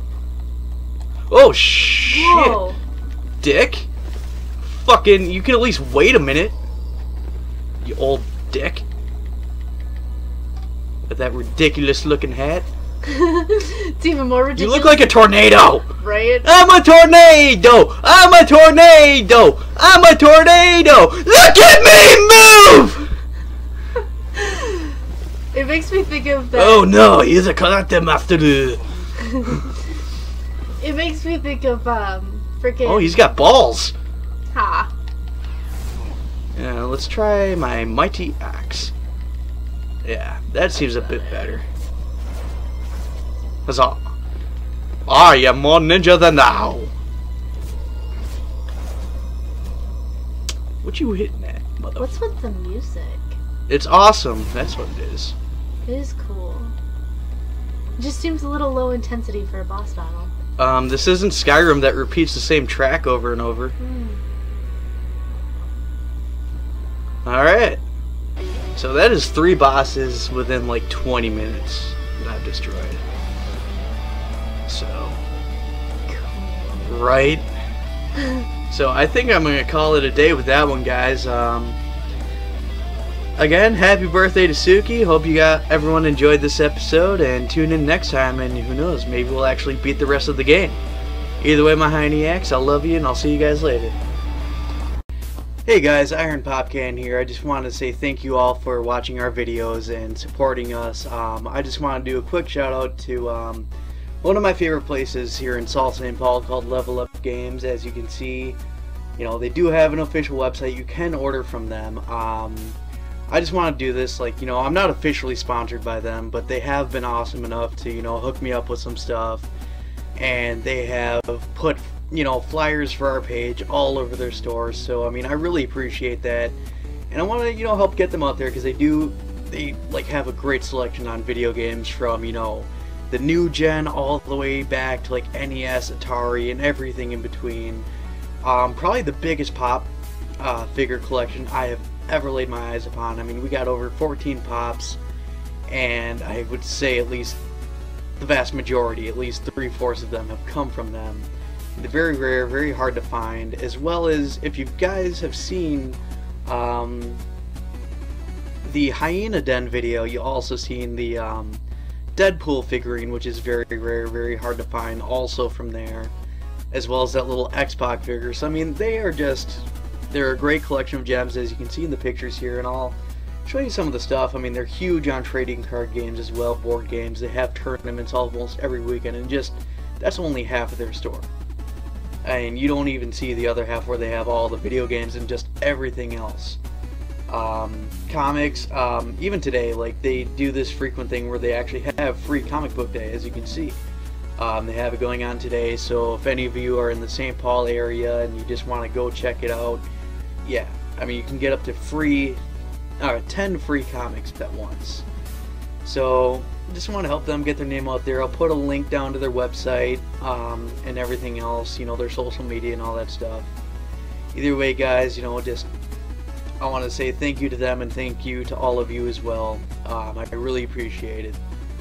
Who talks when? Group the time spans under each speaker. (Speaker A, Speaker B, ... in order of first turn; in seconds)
Speaker A: 1.3-2.6, 3.4-3.9, 4.6-6.6, 7.8-8.8, 11.1-12.7, 14.6-15.9, 16.4-23.1, 26.5-28.8, 32.8-34.0, 36.5-38.9, 40.0-41.6, 43.7-44.1, 45.1-46.9, 50.8-52.1, 53.7-55.3, 60.6-63.8, 67.2-67.8, 68.8-73.0, 74.7-75.2, 76.8-77.5, 78.7-81.8, 83.4-90.8, 91.4-94.0, 95.7-103.7, 104.2-108.6, 109.2-112.8, 113.3-119.5, 120.2-126.6, 127.1-137.9, 138.4-145.0, 145.7-147.4, 148.2-157.2, 158.6-161.6, 162.2-166.1, 166.7-181.3, 182.2-186.6, 187.3-193.8, 194.4-199.9, 200.4-202.4, 203.0-205.1, 205.8-213.5, 214.3-215.7, 216.6-221.4
Speaker B: 2.1-2.8, 13.0-15.2, 16.0-16.5, 24.4-24.9, 25.5-26.9, 30.8-33.3, 34.5-34.9, 40.8-41.6, 52.0-53.4, 55.8-56.7, 58.0-60.3, 63.8-64.2, 76.1-76.9, 78.2-78.4